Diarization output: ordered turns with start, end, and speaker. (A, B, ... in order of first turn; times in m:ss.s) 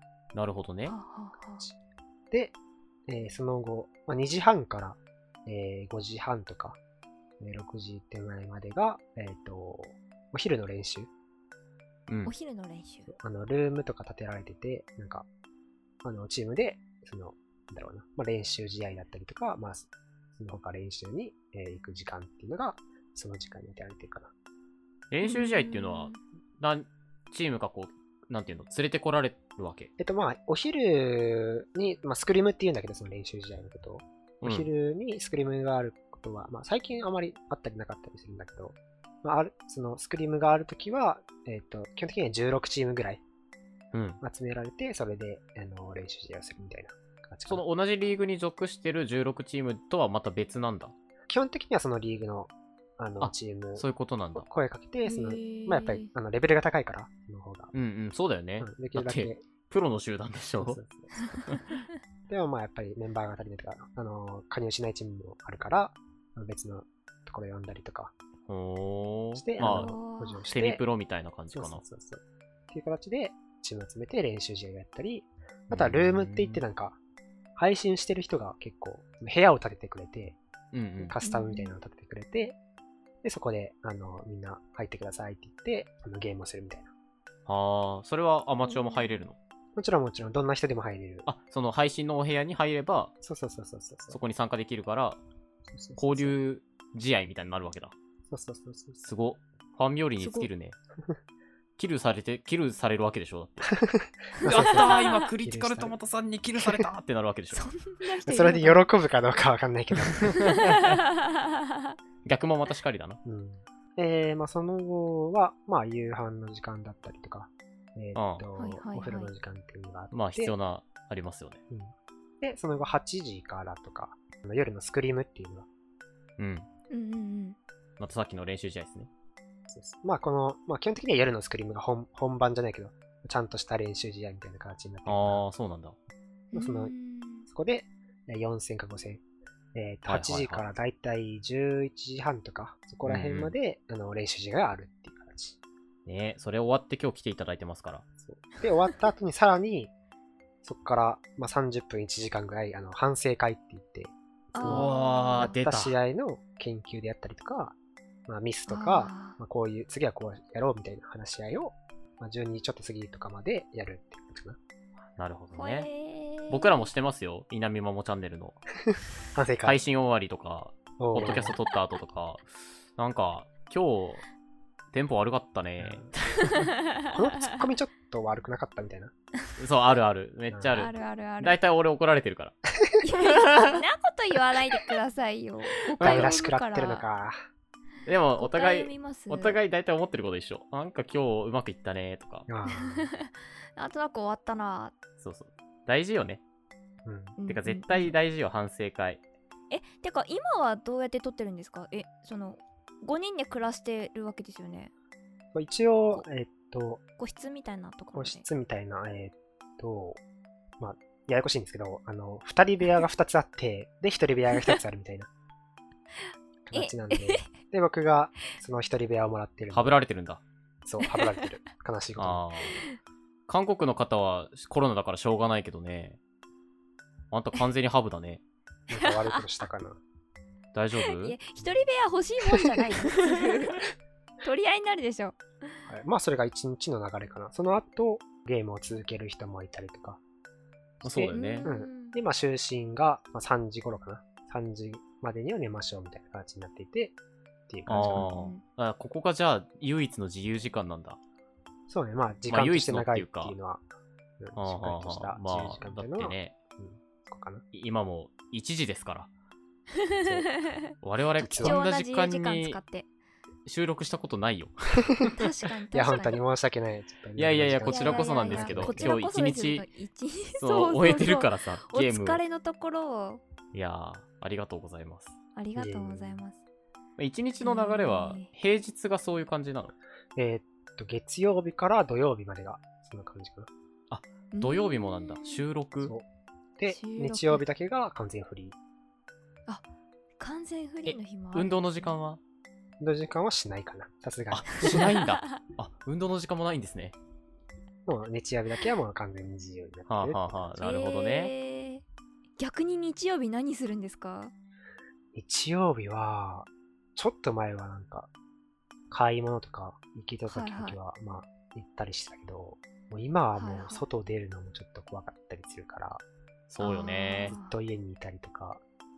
0:00.3-0:01.0 A
0:00.8-0:01.7 B
0:03.1-0:06.8 C
0:07.4-0:11.1 C
0:12.1-0:12.3 A
0:12.2-0:13.1 B
0:13.1-0:15.3 C
0:16.0-0:24.3 C
0:25.1-0:29.9 A
0:25.2-0:26.2 B
0:30.0-0:43.2 C
0:34.4-0:34.7 A
0:43.9-0:44.2 A
0:44.2-0:47.6 C
0:47.5-0:50.9 A
0:51.3-0:57.7 C
0:53.2-0:54.5 A
0:55.0-0:56.1 B
0:57.7-1:00.8 A
0:58.6-0:59.4 C
1:00.6-1:01.1 C
1:01.4-1:01.7 A
1:02.3-1:08.1 C
1:08.5-1:10.0 A
1:09.4-1:10.8 C
1:09.6-1:10.5 B
1:10.5-1:11.8 A
1:11.5-1:17.0 C
1:15.7-1:16.6 A
1:17.6-1:20.4 C
1:20.7-1:21.2 A
1:21.0-1:22.6 C
1:21.2-1:21.7 B
1:23.2-1:26.9 C
1:27.5-1:29.4 A
1:28.7-1:29.2 B
1:29.7-1:31.2 C
1:31.2-1:33.1 A
1:33.2-1:34.2 C
1:34.1-1:35.2 A
1:35.7-1:36.3 C
1:36.0-1:37.9 A
1:38.3-1:39.0 C
1:39.0-1:40.8 A
1:40.2-1:40.5 B
1:41.8-1:43.8 A
1:43.8-1:45.9 C
1:44.4-1:45.2 B
1:44.4-1:47.6 A
1:46.6-1:46.9 C
1:47.5-1:48.8 B
1:48.2-1:50.7 C
1:50.1-1:51.0 A
1:50.4-1:51.5 B
1:52.2-1:53.2 A
1:53.2-2:00.5 C
1:58.1-1:58.4 A
1:58.6-1:59.3 B
2:00.1-2:01.6 A
2:01.7-2:05.7 C
2:06.4-2:06.7 A
2:06.9-2:07.6 B
2:08.0-2:09.1 A
2:09.7-2:15.4 C
2:15.0-2:16.0 A
2:16.5-2:17.5 B
2:16.5-2:16.9 C
2:17.5-2:19.2 C
2:19.7-2:25.6 C
2:20.1-2:20.6 A
2:23.0-2:23.5 A
2:26.0-2:28.0 A
2:28.2-2:29.9 C
2:30.6-2:37.8 C
2:34.5-2:35.5 B
2:34.6-2:35.9 A
2:38.3-2:44.6 C
2:38.7-2:39.4 B
2:45.2-2:45.9 A
2:45.5-2:46.9 B
2:46.5-2:48.6 A
2:48.9-2:49.8 C
2:49.6-2:54.2 A
2:51.0-2:51.6 C
2:54.9-2:56.7 A
2:55.8-2:56.1 C
2:56.4-2:57.6 B
2:57.1-2:59.1 C
2:59.6-3:02.5 A
3:00.7-3:01.6 B
3:03.0-3:07.0 B
3:03.2-3:03.8 A
3:06.0-3:06.3 A
3:06.0-3:07.4 C
3:08.0-3:12.5 A
3:08.4-3:09.6 B
3:12.5-3:13.1 C
3:12.7-3:14.9 B
3:15.2-3:16.4 A
3:17.0-3:17.4 C
3:17.4-3:18.1 B
3:17.4-3:19.2 A
3:19.7-3:24.9 B
3:25.5-3:27.0 C
3:27.2-3:28.4 B
3:28.1-3:30.2 C
3:30.8-3:35.3 C
3:36.6-3:39.9 C
3:36.7-3:37.5 B
3:39.7-3:40.4 A
3:40.8-3:42.4 C
3:41.0-3:41.4 B
3:42.2-3:42.8 A
3:43.5-3:46.2 A
3:47.3-3:48.4 A
3:48.9-3:50.0 C
3:48.9-3:49.4 B
3:50.7-3:51.4 A
3:51.0-3:53.8 B
3:54.4-3:55.8 B
3:55.9-4:00.2 C
4:01.0-4:07.2 C
4:01.0-4:01.7 A
4:01.3-4:02.2 B
4:07.7-4:08.3 C
4:07.9-4:11.2 A
4:08.1-4:08.6 B
4:11.9-4:13.8 C
4:12.5-4:13.5 A
4:14.4-4:17.6 C
4:14.6-4:16.5 A
4:17.7-4:19.3 A
4:19.9-4:23.1 B
4:21.0-4:22.8 A
4:21.5-4:21.8 C
4:23.6-4:25.3 A
4:25.3-4:26.4 B
4:25.9-4:29.2 C
4:27.4-4:29.9 A
4:27.8-4:33.4 B
4:30.6-4:32.4 A
4:33.7-4:35.3 A
4:35.6-4:36.6 B
4:35.8-4:36.4 C
4:37.2-4:39.9 A
4:37.6-4:38.5 B
4:40.4-4:43.7 C
4:44.1-4:46.1 A
4:44.5-4:45.6 B
4:46.8-4:48.8 C
4:46.9-4:47.6 B
4:50.4-4:52.1 B
4:51.0-4:52.4 A
4:53.0-4:55.1 C
4:54.5-4:57.1 A
4:54.8-4:55.6 B
4:58.0-5:00.7 C
5:00.1-5:01.5 A
5:00.8-5:02.0 B
5:02.6-5:04.5 B
5:05.3-5:08.3 C
5:09.1-5:16.2 C
5:10.5-5:11.0 B
5:13.5-5:14.0 B
5:16.7-5:17.5 A
5:16.8-5:17.8 B
5:17.4-5:18.8 C